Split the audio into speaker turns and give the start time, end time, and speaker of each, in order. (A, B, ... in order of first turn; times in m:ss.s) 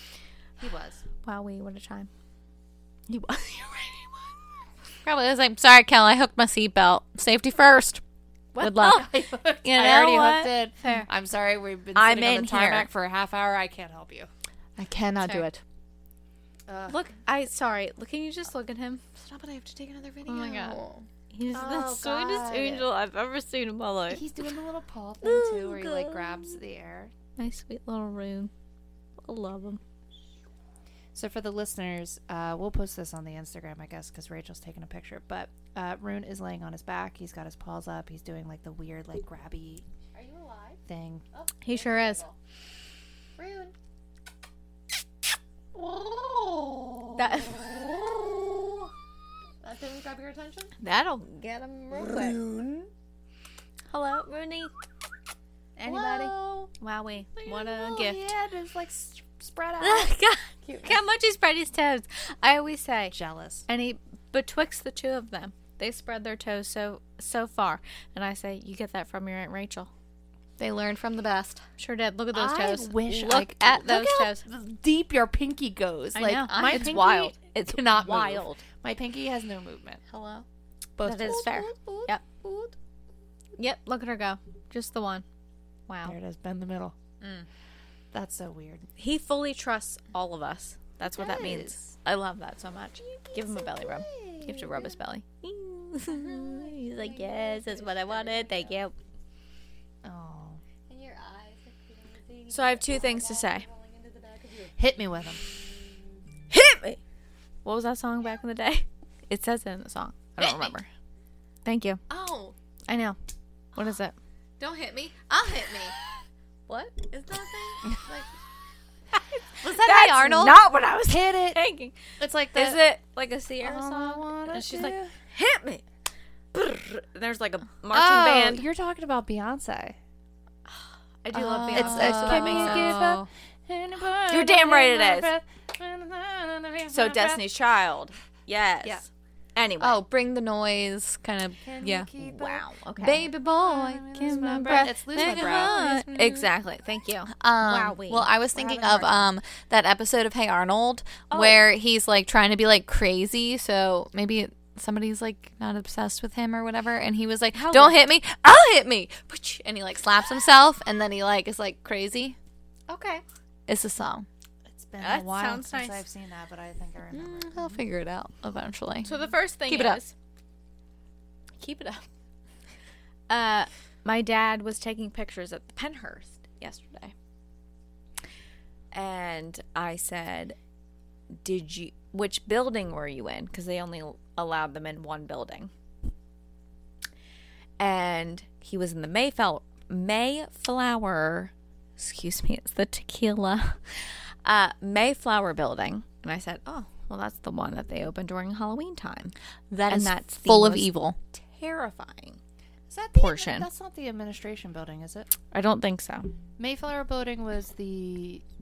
0:00.6-0:01.0 A
0:01.2-0:02.1 B
0:03.1-0:04.1 B
0:05.0-0:08.0 C
0:08.5-0:09.0 B
0:08.6-0:09.1 C
0:08.8-0:14.3 A
0:09.6-0:11.1 B
0:12.0-0:12.9 B
0:14.8-0:15.6 C
0:15.2-0:15.5 B
0:16.7-0:17.0 A
0:16.9-0:19.0 B
0:19.2-0:21.1 C
0:20.2-0:24.2 B
0:21.5-0:22.9 A
0:24.1-0:27.1 A
0:25.2-0:26.6 B
0:27.4-0:28.5 B
0:29.2-0:29.8 B
0:31.1-0:39.8 A
0:40.1-0:40.8 C
0:40.9-0:41.3 A
0:41.4-0:42.3 C
0:41.6-0:42.2 B
0:43.4-0:43.7 C
0:45.8-0:48.8 A
0:47.2-0:47.6 B
0:49.6-0:50.7 C
0:50.8-0:52.4 B
0:51.9-0:52.9 A
0:53.9-0:54.7 B
0:55.8-0:58.3 B
0:56.1-0:56.6 A
0:57.4-1:00.1 A
0:59.8-1:03.2 B
1:03.1-1:03.7 A
1:03.7-1:09.9 B
1:10.6-1:11.6 C
1:11.8-1:14.4 B
1:12.3-1:20.0 A
1:16.1-1:18.6 B
1:16.5-1:17.0 C
1:20.1-1:20.4 C
1:21.0-1:22.7 A
1:21.0-1:22.2 B
1:23.6-1:25.3 B
1:25.9-1:26.2 B
1:26.0-1:27.0 A
1:28.1-1:28.9 A
1:29.0-1:38.9 B
1:31.2-1:31.8 A
1:33.3-1:35.0 A
1:36.1-1:38.8 C
1:40.0-1:40.6 A
1:40.9-1:44.7 C
1:42.5-1:43.7 B
1:44.8-1:45.4 A
1:46.5-1:47.0 B
1:47.6-1:50.9 B
1:50.4-1:50.7 C
1:51.6-1:52.0 B
1:52.1-1:52.6 C
1:52.9-1:53.2 B
1:53.8-1:54.1 B
1:54.6-1:56.0 C
1:56.7-1:57.1 B
1:57.1-1:58.3 C
1:59.6-2:00.6 C
1:59.8-2:02.0 B
2:01.1-2:01.6 A
2:02.2-2:02.8 A
2:02.5-2:05.8 B
2:03.6-2:05.1 A
2:06.5-2:08.6 B
2:07.9-2:10.0 A
2:10.7-2:13.0 B
2:11.3-2:13.3 C
2:11.7-2:17.4 A
2:14.3-2:15.3 B
2:16.9-2:20.0 B
2:19.8-2:22.1 C
2:21.6-2:25.8 A
2:22.2-2:23.3 B
2:23.0-2:26.5 C
2:24.2-2:29.1 B
2:27.3-2:42.4 C
2:28.6-2:29.1 A
2:31.3-2:31.6 B
2:37.5-2:38.0 B
2:42.9-2:43.2 B
2:43.7-2:44.3 C
2:44.7-2:47.8 A
2:45.0-2:46.0 B
2:47.1-2:49.1 C
2:49.0-2:50.1 B
2:49.7-2:50.0 C
2:51.6-2:52.1 B
2:53.3-2:57.1 B
2:58.9-3:00.6 B
3:01.4-3:05.7 B
3:07.8-3:19.3 B
3:19.7-3:21.2 C
3:19.9-3:22.4 B
3:22.9-3:25.3 A
3:23.2-3:23.7 B
3:25.5-3:26.3 B
3:26.6-3:28.4 A